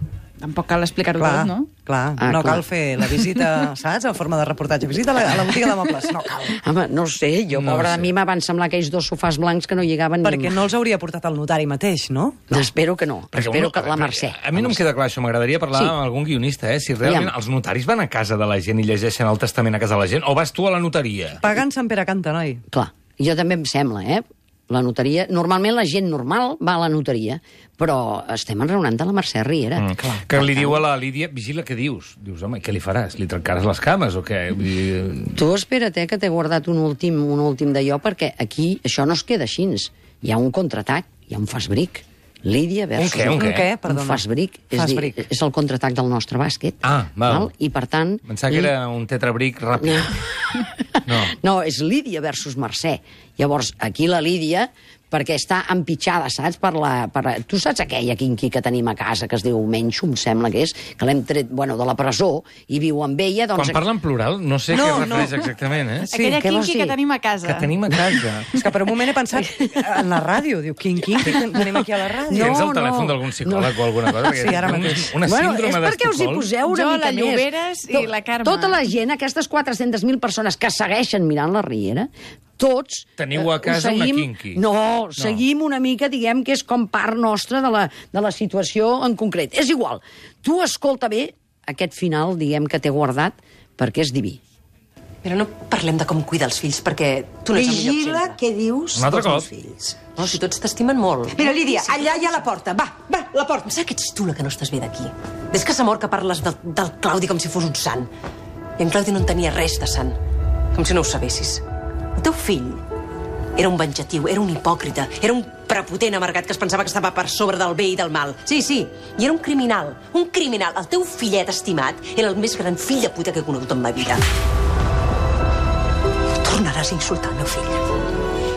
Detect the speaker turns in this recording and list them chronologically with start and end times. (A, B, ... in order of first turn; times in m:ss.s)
0:00.4-0:01.8 A
0:01.2-0:06.5 B
0:02.2-0:02.6 C
0:06.5-0:10.6 C
0:07.5-0:08.1 D
0:10.2-0:12.4 B
0:12.5-0:14.8 C
0:13.3-0:21.4 D
0:17.0-0:17.3 C
0:21.4-0:22.6 B
0:22.7-0:30.8 C
0:29.8-0:35.4 D
0:35.3-0:48.7 C
0:43.0-0:43.7 D
0:43.4-0:44.2 B
0:44.8-0:45.1 B
0:46.8-0:47.5 D
0:48.3-0:50.1 D
0:49.8-1:03.8 C
0:51.1-0:51.3 D
1:03.6-1:06.1 D
1:04.7-1:05.3 B
1:06.1-1:07.8 A
1:06.4-1:07.0 C
1:07.4-1:08.5 D
1:08.6-1:12.6 B
1:12.3-1:14.2 C
1:12.3-1:16.5 D
1:14.3-1:15.0 B
1:15.2-1:34.4 C
1:16.6-1:18.8 A
1:23.2-1:24.6 D
1:35.2-1:38.4 E
1:37.6-1:39.5 F
1:38.9-1:39.5 D
1:39.5-1:42.0 E
1:41.4-1:43.7 F
1:43.7-1:48.1 E
1:48.8-1:50.2 E
1:50.7-1:51.6 E
1:52.2-1:52.8 E
1:53.6-2:04.3 E
2:06.4-2:07.8 E